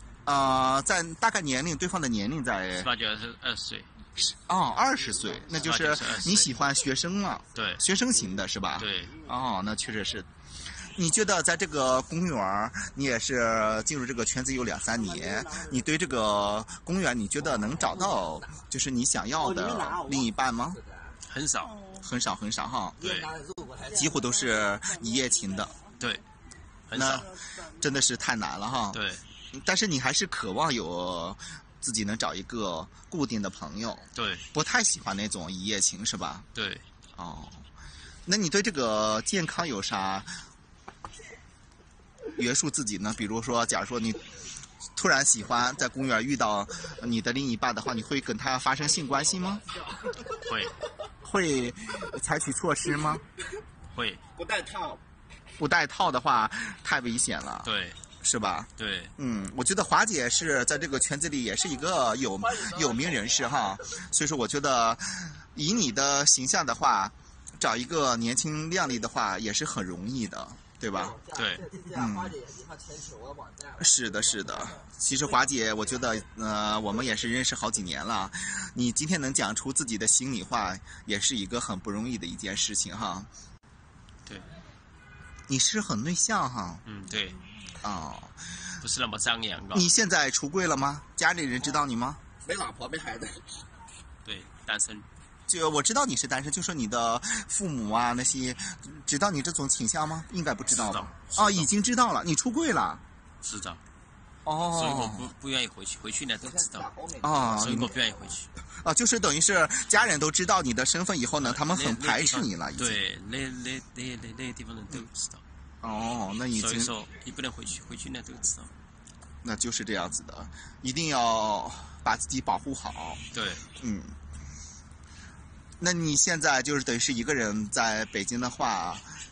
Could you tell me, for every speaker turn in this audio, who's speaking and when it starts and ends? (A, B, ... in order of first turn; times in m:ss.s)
0:00.2-0:02.9 A
0:02.8-0:03.9 B
0:04.2-0:10.3 A
0:05.6-0:06.5 B
0:07.5-0:07.8 B
0:08.8-0:09.2 B
0:10.9-0:20.8 A
0:20.8-0:21.1 C
0:21.2-0:21.9 B
0:21.9-0:23.0 A
0:23.0-0:23.3 B
0:23.1-0:24.0 C
0:23.9-0:25.8 A
0:26.0-0:26.2 B
0:26.9-0:27.3 B
0:26.9-0:29.0 A
0:28.9-0:29.2 B
0:29.5-0:36.4 A
0:34.1-0:34.4 B
0:36.5-0:36.8 B
0:37.2-0:37.6 A
0:38.2-0:40.3 A
0:42.3-0:44.2 A
0:45.0-0:49.6 A
0:50.4-0:50.8 B
0:51.2-0:53.2 A
0:53.9-0:54.2 B
0:54.4-0:55.0 C
0:55.6-1:11.2 A
0:57.6-0:58.0 B
0:58.8-0:59.1 B
1:11.0-1:13.8 C
1:11.3-1:11.7 B
1:11.9-1:12.4 A
1:13.8-1:23.3 A
1:24.2-1:24.6 B
1:25.5-1:26.8 A
1:26.8-1:27.4 B
1:27.8-1:28.6 A
1:28.8-1:29.9 B
1:29.7-1:32.2 A
1:32.4-1:33.4 C
1:34.2-1:35.1 B
1:35.5-1:43.0 A
1:40.7-1:41.7 B
1:43.4-1:43.8 B
1:44.4-1:45.3 A
1:44.7-1:48.5 B
1:46.8-1:47.2 C
1:47.2-1:47.9 A
1:48.8-1:53.0 A
1:51.4-1:55.4 B
1:55.8-1:56.9 A
1:56.5-1:58.7 B
1:59.4-2:03.2 A
2:03.3-2:03.7 B
2:03.8-2:04.2 A
2:05.8-2:09.1 A